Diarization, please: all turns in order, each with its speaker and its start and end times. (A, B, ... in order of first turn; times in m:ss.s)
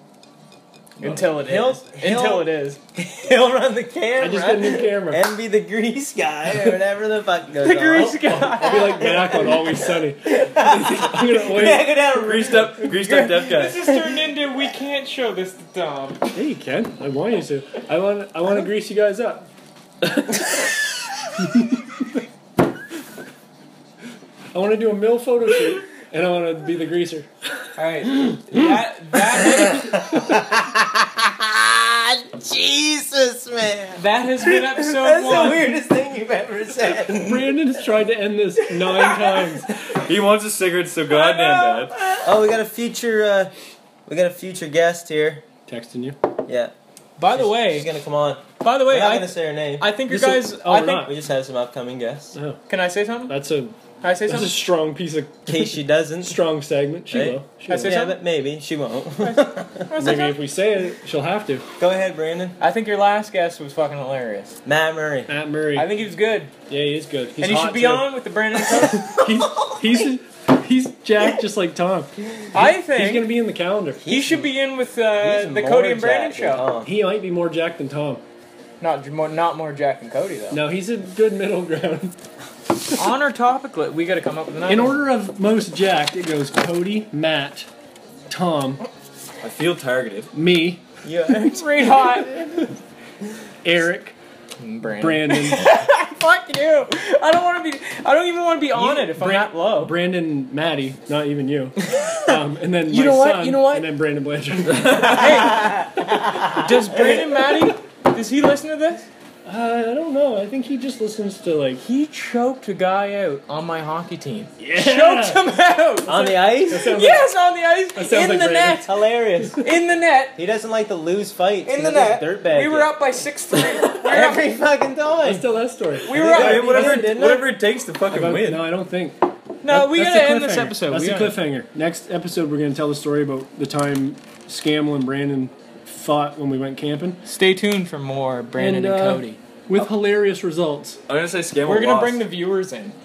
0:01.0-0:02.8 A
0:01.1-0:12.7 B
0:04.2-0:05.2 C
0:07.6-0:09.2 A
0:08.4-0:12.0 C
0:12.1-0:13.8 D
0:12.8-0:16.3 A
0:16.3-0:19.5 C
0:20.0-0:20.5 C
0:21.4-0:21.8 C
0:24.5-0:27.3 C
0:27.8-0:30.1 A
0:29.9-0:37.6 B
0:34.0-0:35.7 A
0:37.1-0:39.7 C
0:38.8-0:39.6 B
0:39.8-0:42.2 D
0:41.2-0:43.5 B
0:44.1-0:45.4 B
0:45.7-0:46.2 C
0:46.4-0:46.7 B
0:47.2-0:47.9 A
0:47.3-0:49.9 B
0:48.6-0:51.1 A
0:50.1-0:51.1 C
0:51.0-0:52.4 B
0:52.3-0:52.6 C
0:52.7-0:53.4 A
0:53.3-0:58.0 C
0:54.0-0:54.6 A
0:55.5-0:56.4 B
0:57.1-0:59.9 B
0:57.7-0:58.2 A
0:59.2-1:00.4 A
1:00.0-1:01.7 C
1:01.8-1:02.6 B
1:02.6-1:04.6 A
1:04.6-1:05.3 B
1:05.3-1:05.9 C
1:05.8-1:06.5 A
1:06.7-1:14.0 C
1:07.4-1:09.2 A
1:12.5-1:13.3 A
1:14.0-1:14.5 B
1:14.0-1:16.7 A
1:15.2-1:16.9 B
1:16.8-1:18.2 C
1:18.8-1:20.6 A
1:20.5-1:22.2 C
1:22.9-1:25.1 A
1:24.7-1:27.7 C
1:28.3-1:28.8 C
1:29.4-1:30.3 D
1:30.3-1:30.8 C
1:31.0-1:32.6 B
1:31.3-1:32.6 A
1:33.6-1:34.2 C
1:34.6-1:39.9 A
1:35.0-1:35.7 C
1:38.7-1:45.4 C
1:41.9-1:42.4 A
1:42.9-1:43.9 A
1:44.8-1:45.4 D
1:44.9-1:49.1 A
1:45.5-1:45.9 B
1:49.4-1:51.8 C
1:51.8-1:58.9 A
1:54.6-1:55.4 C
1:56.1-1:57.0 B
1:56.7-1:57.3 C
1:57.9-1:58.9 C
1:58.8-1:59.7 B
1:59.6-2:00.4 A
2:00.4-2:02.9 B
2:01.7-2:04.5 A
2:03.6-2:05.5 B
2:05.2-2:06.2 C
2:06.1-2:07.1 A
2:06.1-2:07.5 B
2:06.2-2:08.7 D
2:08.1-2:17.2 C
2:09.6-2:11.4 A
2:17.3-2:19.4 A
2:18.6-2:21.0 C
2:21.1-2:22.3 D
2:21.6-2:23.0 A